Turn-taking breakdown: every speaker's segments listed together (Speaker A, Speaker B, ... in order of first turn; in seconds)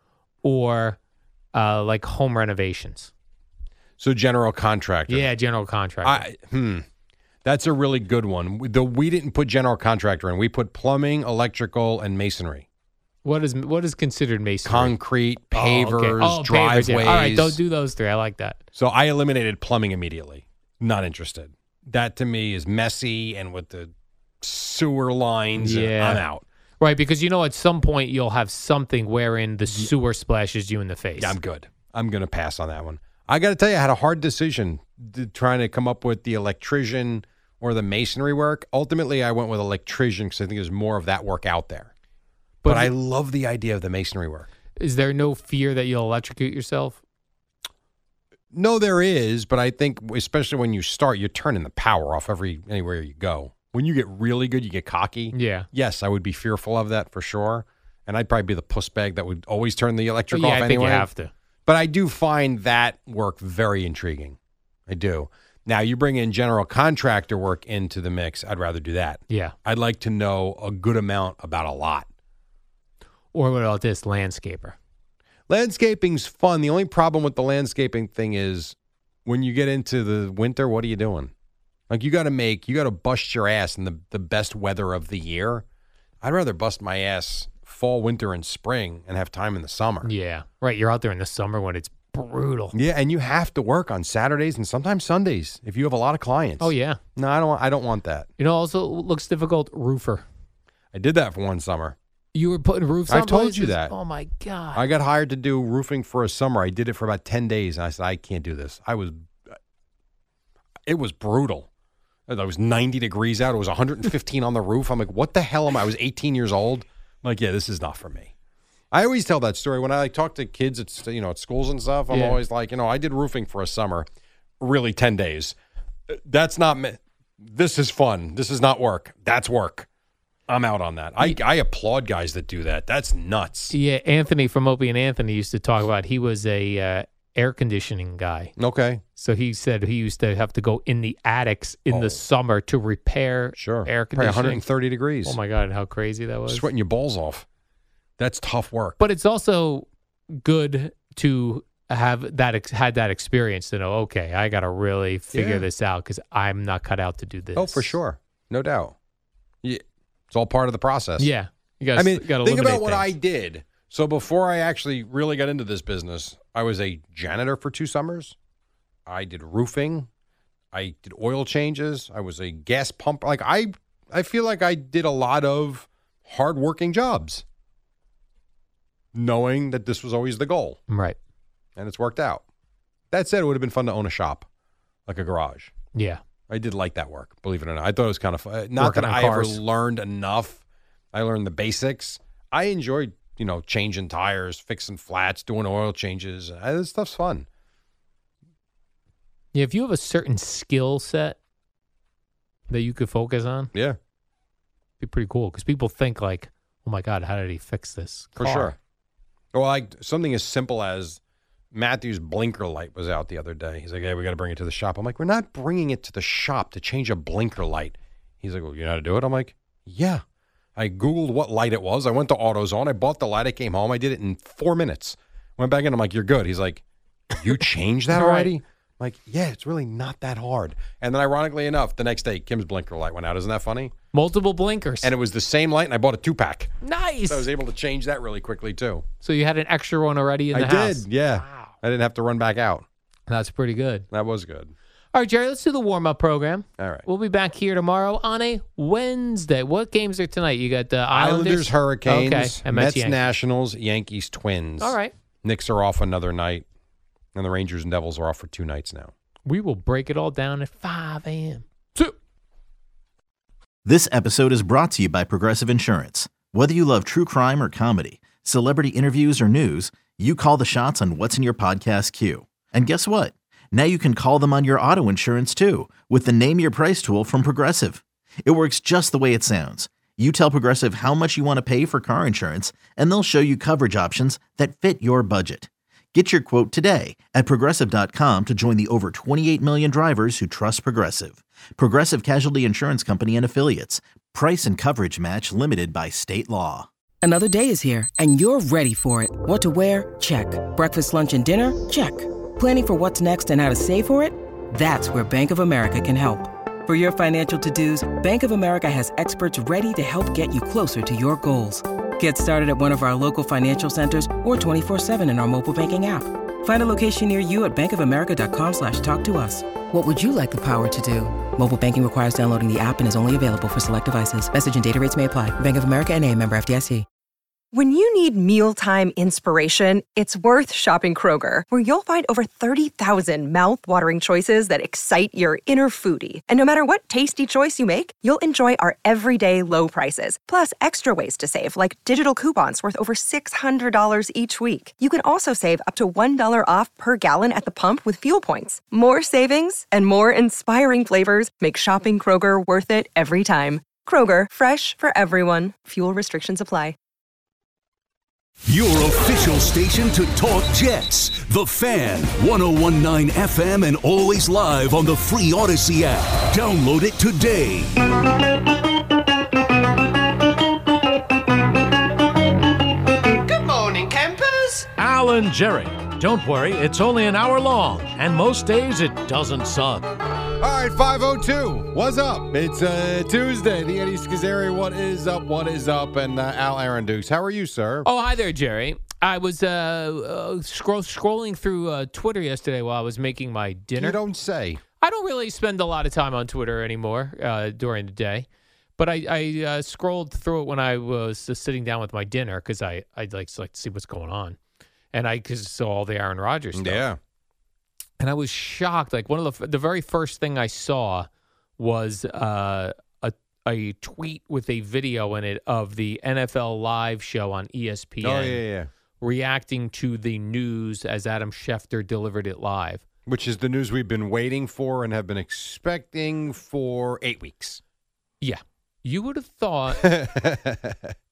Speaker A: 0.4-1.0, 1.5-3.1, 5.1-6.3, 13.2-14.9, 15.5-18.6, 25.6-26.2, 26.8-31.4, 42.6-42.9, 44.8-47.0, 55.3-55.7, 60.3-61.3, 69.3-69.5, 73.3-74.8, 90.0-92.8, 96.6-97.0, 98.4-100.2, 102.3-104.9, 122.1-122.4, 133.7-138.5, 139.2-144.6, 145.2-146.7, 149.0-149.9, 150.4-157.9, 161.2-163.1, 180.9-181.2, 185.9-186.2, 188.8-189.6, 199.5-201.4, 202.7-203.7, 205.0-208.8, 228.1-228.5, 234.1-235.1, 236.8-237.5, 239.2-241.7, 243.3-244.1, 245.1-253.2, 254.8-255.1, 259.5-262.1, 388.0-394.2, 395.0-398.5, 399.0-404.6, 405.1-407.1, 408.2-418.6, 419.2-423.0, 428.4-430.2
Speaker B: 4.0-5.3, 6.0-6.9, 7.5-12.7, 14.7-17.6, 18.8-23.9, 24.4-26.4, 31.2-41.9, 42.7-44.5, 48.5-61.1, 61.7-64.4, 64.9-72.1, 75.5-78.8, 79.3-81.3, 81.9-85.7, 86.2-90.1, 92.7-98.3, 100.9-102.0, 103.1-103.9, 104.7-109.5, 110.9-111.7, 112.3-118.3, 118.9-124.1, 124.6-125.5, 126.1-129.9, 130.5-133.7, 138.6-139.0, 141.9-142.2, 143.6-145.4, 146.5-147.4, 148.2-149.0, 155.3-155.7, 157.6-158.9, 159.6-161.3, 162.0-168.3, 169.1-170.1, 170.7-177.4, 179.1-180.8, 181.8-182.4, 183.1-184.5, 185.1-185.7, 186.5-197.5, 208.4-208.8, 209.5-211.2, 211.7-220.2, 220.8-226.8, 227.4-233.9, 235.0-236.7, 237.3-239.1, 240.5-242.8, 244.1-244.7, 246.8-247.1, 251.1-256.6, 257.4-259.1, 380.6-388.1, 394.0-394.8, 406.8-407.2, 418.2-418.9, 423.3-427.8, 430.0-431.1
Speaker C: 263.9-296.9
Speaker D: 297.2-327.1
Speaker E: 327.7-357.0
Speaker F: 358.7-368.1
Speaker G: 374.7-380.0